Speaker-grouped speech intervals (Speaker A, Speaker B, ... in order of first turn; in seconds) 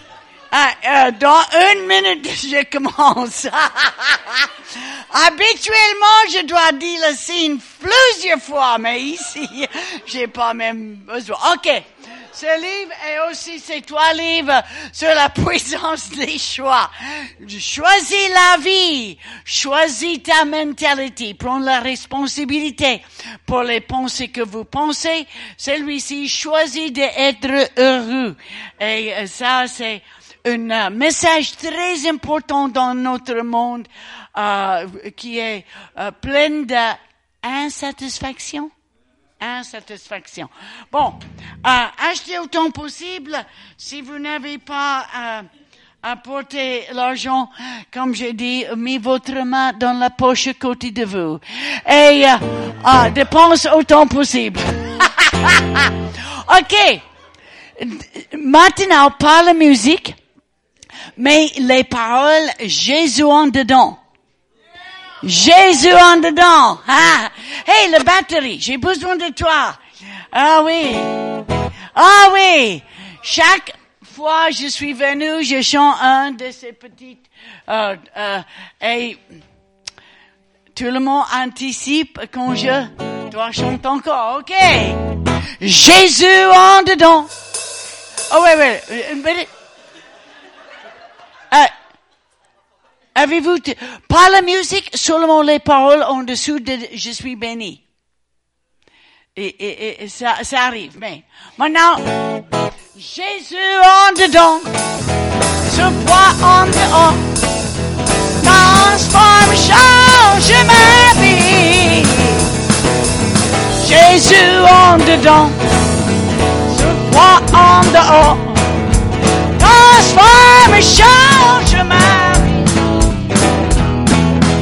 Speaker A: 0.5-38.7, 39.4-45.5, 46.0-57.0, 57.8-60.2, 61.2-64.0, 65.2-69.8, 70.3-71.3, 72.0-79.2, 80.7-85.0, 85.6-87.3, 88.3-89.5, 93.2-97.8, 99.3-102.1, 103.0-104.7, 105.7-107.3, 108.4-112.5, 113.8-115.6, 116.6-118.8, 119.6-122.8